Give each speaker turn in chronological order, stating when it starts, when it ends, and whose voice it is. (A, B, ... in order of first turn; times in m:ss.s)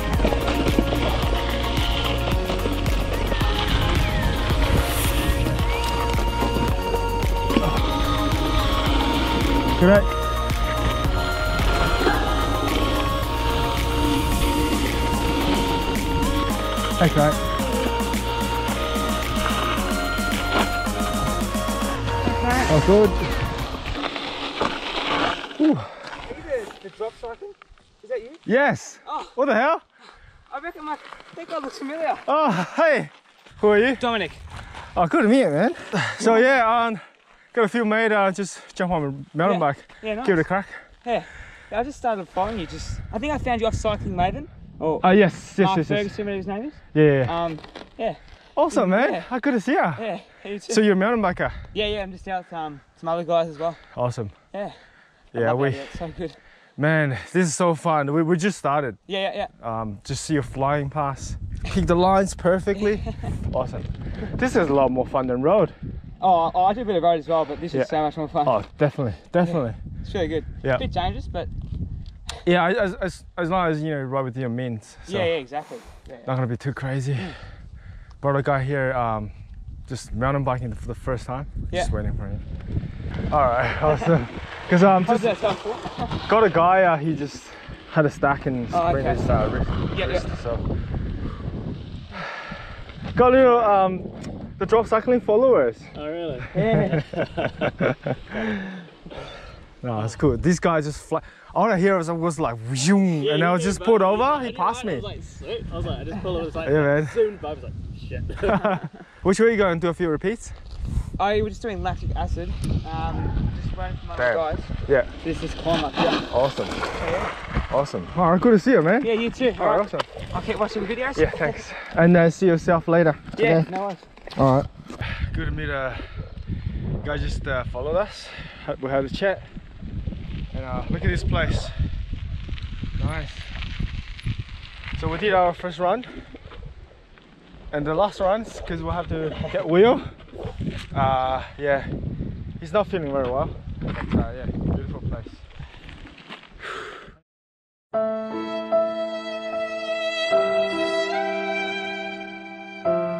0:09.8-0:10.1 A
0:17.0-0:17.4 A
0:22.2-0:22.8 B
0:22.7-0:23.3 A
0:25.6-0:26.0 A
0:26.2-0:28.4 B
0:28.4-0:29.8 A
0:29.0-0:29.3 B
0:30.5-0:32.3 B
0:32.2-0:34.0 A
0:34.0-0:34.4 B
0:34.9-0:37.0 A
0:37.5-0:40.8 A
0:39.4-0:40.4 B
0:41.0-0:49.3 B
0:45.0-0:46.1 A
0:46.9-0:47.3 A
0:48.5-0:50.0 A
0:50.0-0:50.8 B
0:50.7-0:51.6 A
0:51.7-0:53.8 B
0:53.9-0:54.3 A
0:54.5-0:54.8 B
0:55.3-0:55.9 A
0:55.3-0:56.4 B
0:56.8-0:59.0 A
0:59.1-0:59.5 B
0:59.6-1:05.8 A
1:06.2-1:08.6 B
1:07.7-1:09.8 A
1:09.4-1:11.5 B
1:12.4-1:15.3 A
1:15.1-1:16.3 B
1:16.2-1:17.4 A
1:18.2-1:19.3 A
1:19.9-1:22.4 A
1:23.3-1:25.3 A
1:25.0-1:26.2 B
1:26.2-1:30.6 A
1:28.7-1:29.3 B
1:29.9-1:30.3 B
1:33.1-1:35.9 A
1:35.9-1:37.8 C
1:36.6-1:36.8 B
1:38.1-1:38.7 A
1:39.8-1:45.1 A
1:43.2-1:48.6 C
1:46.6-1:47.2 A
1:48.4-1:50.5 A
1:51.2-1:56.2 B
1:54.2-1:55.1 A
1:56.3-1:56.8 A
1:57.0-1:57.3 B
1:57.7-2:00.1 A
1:59.0-2:01.6 B
2:01.1-2:03.7 A
2:03.4-2:04.1 B
2:04.3-2:06.0 A
2:07.0-2:09.5 A
2:10.5-2:11.8 A
2:13.0-2:13.5 A
2:15.0-2:16.3 A
2:17.7-2:20.1 A
2:20.9-2:21.9 A
2:22.6-2:25.4 A